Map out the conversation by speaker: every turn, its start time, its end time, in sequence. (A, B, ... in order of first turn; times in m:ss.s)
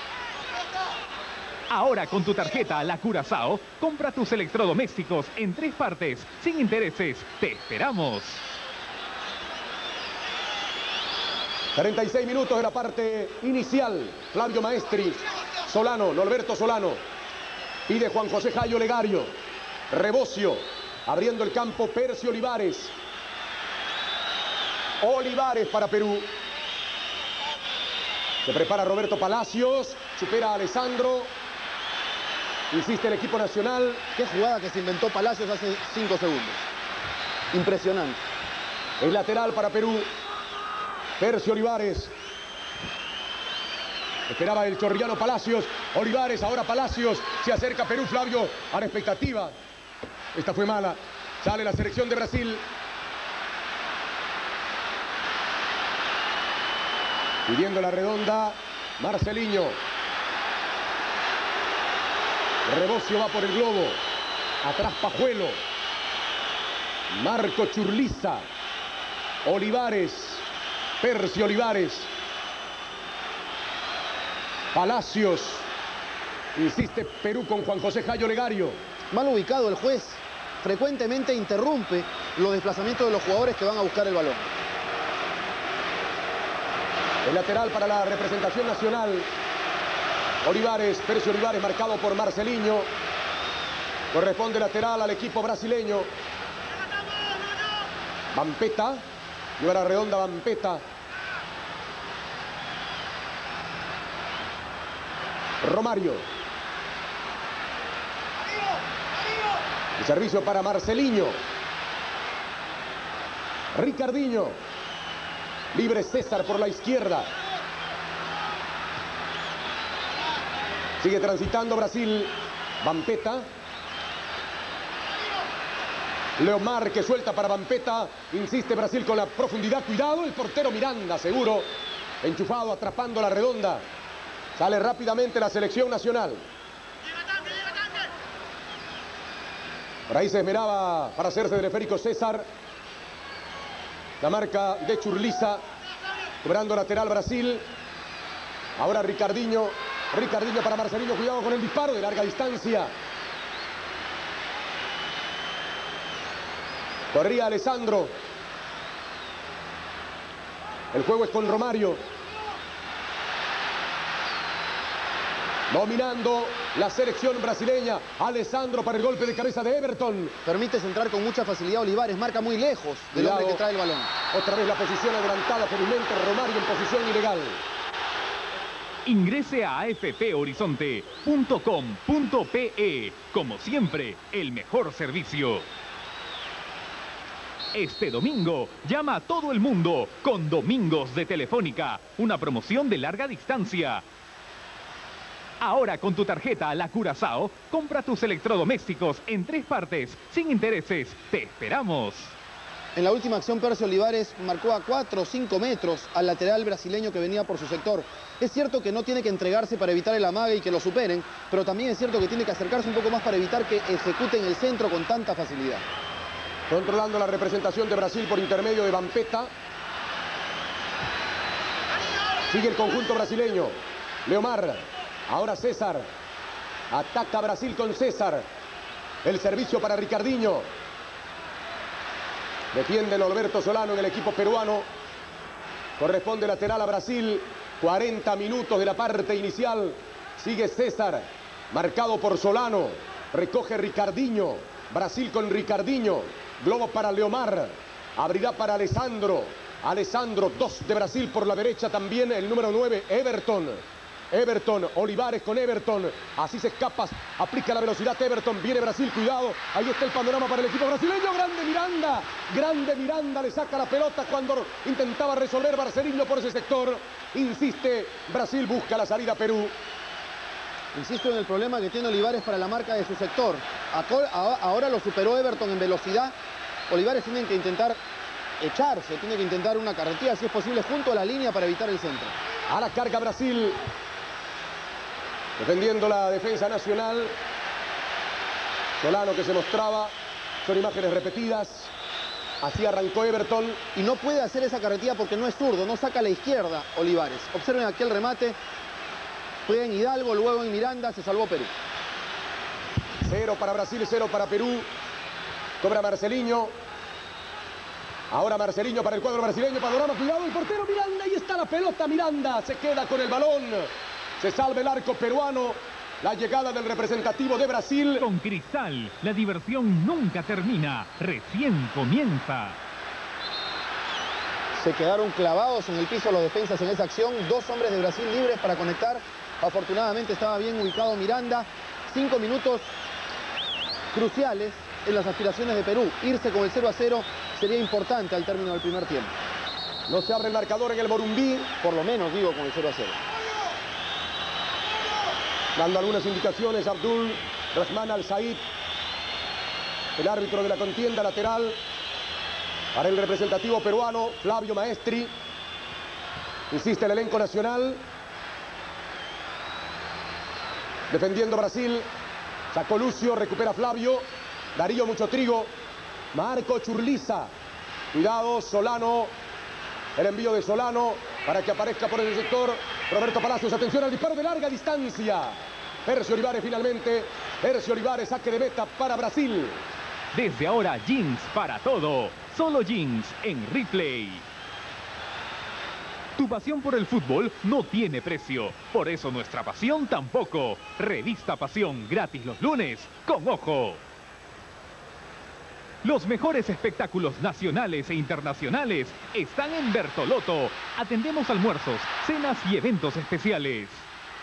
0:01.7-0:08.4 A
0:11.7-0:17.0 B
0:17.9-0:19.3 B
0:19.9-0:22.9 B
0:25.0-0:26.3 B
0:28.4-0:31.3 B
0:32.7-0:34.0 B
0:34.2-0:36.6 C
0:37.5-0:38.2 C
0:39.0-0:40.1 B
0:41.2-0:42.1 B
0:44.3-0:49.5 B
0:50.3-0:52.6 B
0:57.4-0:59.8 B
1:02.6-1:04.0 B
1:04.6-1:05.6 B
1:07.1-1:08.4 B
1:09.4-1:10.4 B
1:11.0-1:12.1 B
1:14.7-1:15.7 B
1:16.6-1:18.8 B
1:19.1-1:24.5 C
1:27.2-1:29.3 B
1:30.4-1:32.9 B
1:34.1-1:36.1 B
1:38.3-1:39.0 B
1:39.6-1:40.8 B
1:45.6-1:46.2 B
1:50.0-1:51.4 B
1:53.7-1:54.6 B
1:55.7-1:57.3 B
2:01.0-2:03.4 B
2:06.4-2:11.7 B
2:12.2-2:13.8 B
2:14.6-2:16.4 B
2:20.1-2:22.4 B
2:24.2-2:25.6 B
2:26.4-2:27.6 B
2:28.8-2:32.9 B
2:37.1-2:38.1 B
2:40.9-2:42.0 B
2:45.7-2:50.4 B
2:50.4-2:54.1 C
2:53.1-2:53.6 B
2:54.3-2:57.6 B
2:59.0-3:05.7 A
3:07.7-3:14.0 A
3:15.6-3:22.3 A
3:23.0-3:35.8 C
3:36.7-3:39.5 B
3:42.5-3:46.1 B
3:46.9-3:48.4 B
3:49.2-3:50.7 B
3:52.7-3:54.8 B
3:56.0-4:29.7 B
4:30.9-4:36.3 C
4:36.9-4:38.0 C
4:38.6-4:42.3 C
4:42.7-4:43.8 B
4:45.6-4:47.3 B
4:49.0-4:50.1 B
4:50.6-4:51.9 B
4:52.6-4:53.8 B
4:53.9-4:58.6 C
4:59.6-5:01.7 C
5:03.2-5:04.9 B
5:05.8-5:06.7 B
5:08.3-5:18.3 B
5:18.2-5:22.8 A
5:24.8-5:32.9 C
5:34.1-5:39.3 C
5:40.1-5:41.7 B
5:41.8-5:43.2 C
5:45.8-5:48.6 B
5:50.2-5:51.8 B
5:52.9-5:55.3 B
5:56.7-5:58.0 B
6:01.1-6:02.0 B
6:02.7-6:05.7 B
6:06.3-6:07.5 B
6:08.1-6:09.3 B
6:10.2-6:19.8 B
6:20.3-6:24.4 A
6:26.4-6:34.0 A
6:36.0-6:44.0 A